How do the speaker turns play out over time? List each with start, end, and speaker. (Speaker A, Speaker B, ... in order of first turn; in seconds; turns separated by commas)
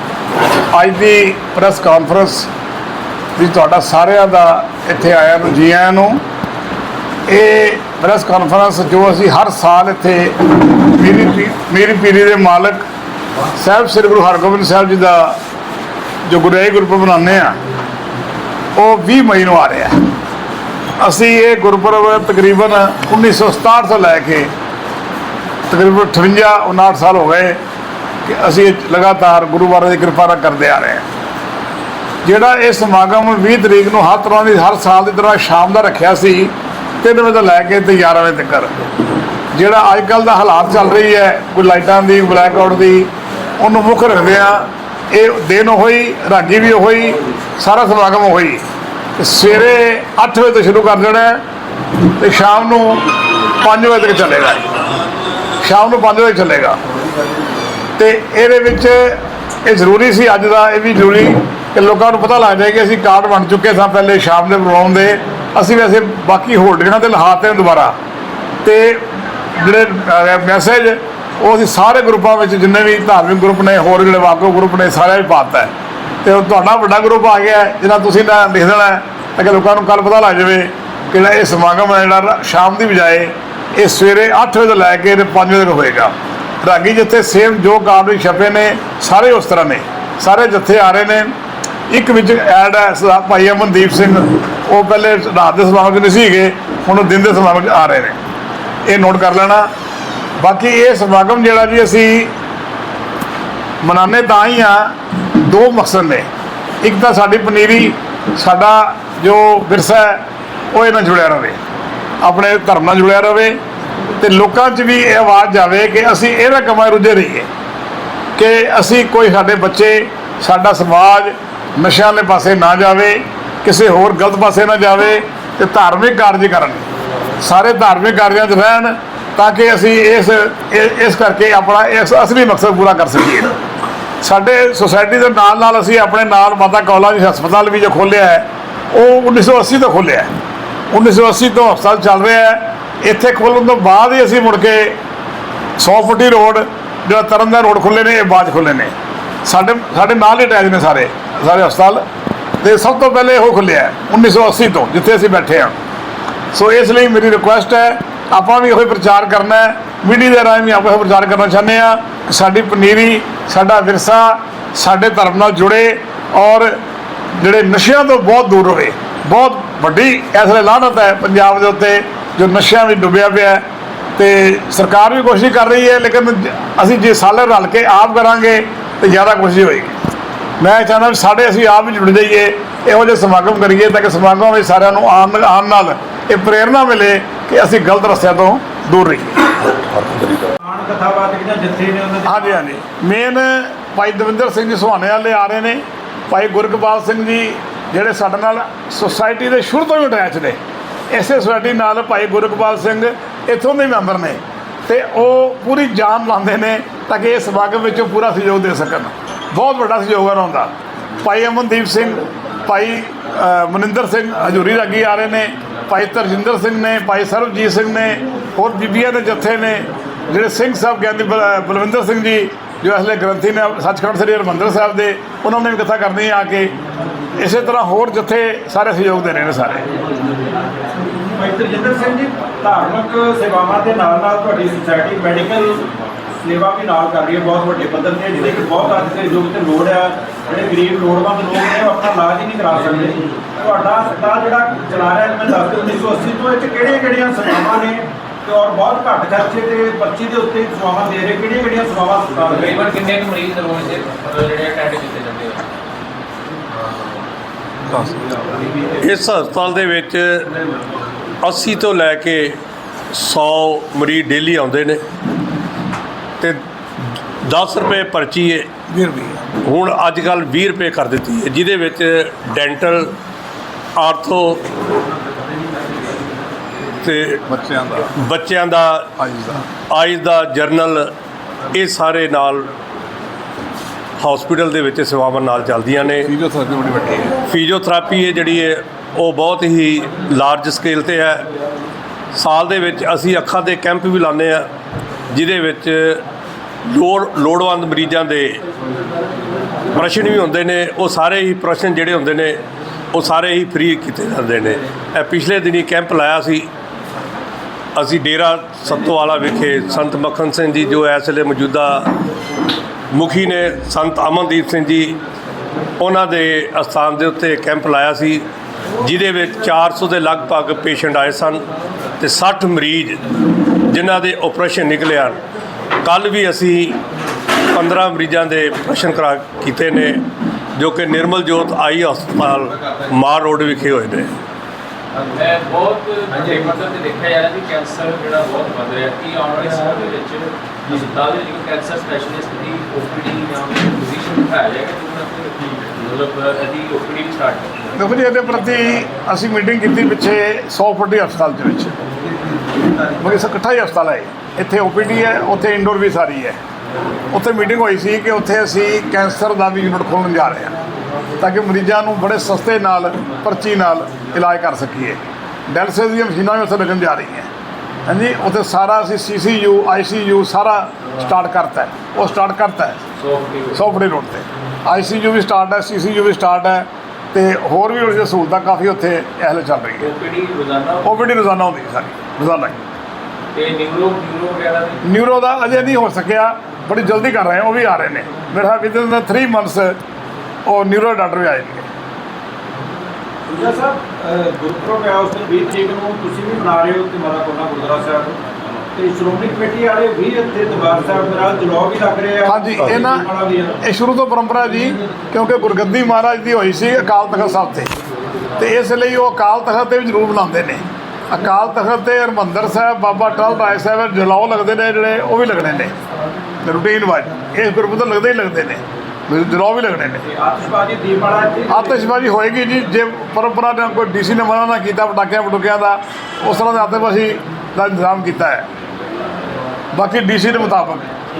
Speaker A: 0.7-2.5, Speaker A: 3.4-6.2, Speaker A: 7.3-12.8, Speaker A: 13.6-15.4, Speaker A: 16.3-17.6, Speaker A: 18.8-19.9, Speaker A: 21.0-24.5, Speaker A: 25.7-27.6, Speaker A: 28.2-31.0, Speaker A: 32.2-38.7, Speaker A: 39.5-48.6, Speaker A: 49.2-51.4, Speaker A: 52.2-53.1, Speaker A: 53.6-54.8, Speaker A: 55.6-56.8, Speaker A: 58.0-68.0, Speaker A: 68.6-75.7, Speaker A: 76.2-91.3, Speaker A: 91.9-98.2, Speaker A: 98.9-99.7, Speaker A: 100.4-102.3, Speaker A: 103.8-106.3, Speaker A: 106.8-111.6, Speaker A: 112.2-113.6, Speaker A: 114.2-117.5, Speaker A: 118.4-126.9, Speaker A: 127.4-133.5, Speaker A: 134.2-140.3, Speaker A: 140.9-145.0, Speaker A: 145.8-148.9, Speaker A: 149.4-152.0, Speaker A: 152.6-155.8, Speaker A: 156.5-166.8, Speaker A: 167.4-173.6, Speaker A: 174.2-180.0, Speaker A: 180.6-189.6, Speaker B: 190.6-192.6, Speaker A: 192.2-200.6, Speaker A: 201.1-226.7, Speaker A: 227.3-229.8, Speaker B: 231.2-235.8, Speaker B: 236.4-252.8, Speaker C: 252.5-255.7, Speaker A: 257.9-258.2, Speaker D: 259.0-260.5, Speaker D: 261.4-262.6, Speaker D: 263.1-265.0, Speaker D: 267.4-268.7, Speaker A: 268.9-269.4, Speaker D: 269.6-273.1, Speaker D: 274.0-274.6, Speaker D: 277.0-277.4, Speaker A: 277.5-278.1, Speaker D: 278.2-279.1, Speaker A: 279.2-279.6, Speaker D: 279.9-281.1, Speaker D: 281.7-282.7, Speaker D: 284.2-286.3, Speaker A: 286.2-287.3, Speaker D: 287.5-291.5, Speaker D: 292.3-294.7, Speaker D: 295.3-296.2, Speaker D: 296.9-298.6, Speaker D: 299.9-306.7, Speaker D: 307.9-312.1, Speaker D: 313.1-315.2, Speaker D: 316.0-318.4, Speaker D: 319.0-321.6, Speaker D: 322.2-323.2, Speaker D: 323.9-325.4, Speaker D: 326.0-327.0, Speaker D: 327.7-330.2, Speaker D: 330.8-334.3, Speaker C: 335.2-347.8, Speaker A: 347.9-351.9, Speaker A: 353.2-356.6, Speaker A: 357.3-360.8, Speaker A: 361.4-367.5, Speaker A: 368.1-373.0, Speaker C: 373.1-373.8, Speaker A: 373.8-380.1, Speaker C: 380.0-381.4, Speaker A: 381.0-382.8, Speaker C: 383.5-385.0, Speaker A: 385.1-390.0, Speaker A: 390.7-391.9, Speaker B: 393.4-398.4, Speaker B: 398.9-403.8, Speaker A: 402.5-403.3, Speaker A: 403.8-407.9, Speaker A: 408.6-415.9, Speaker A: 416.6-420.2, Speaker B: 420.3-422.0, Speaker A: 421.7-428.7, Speaker A: 429.9-431.1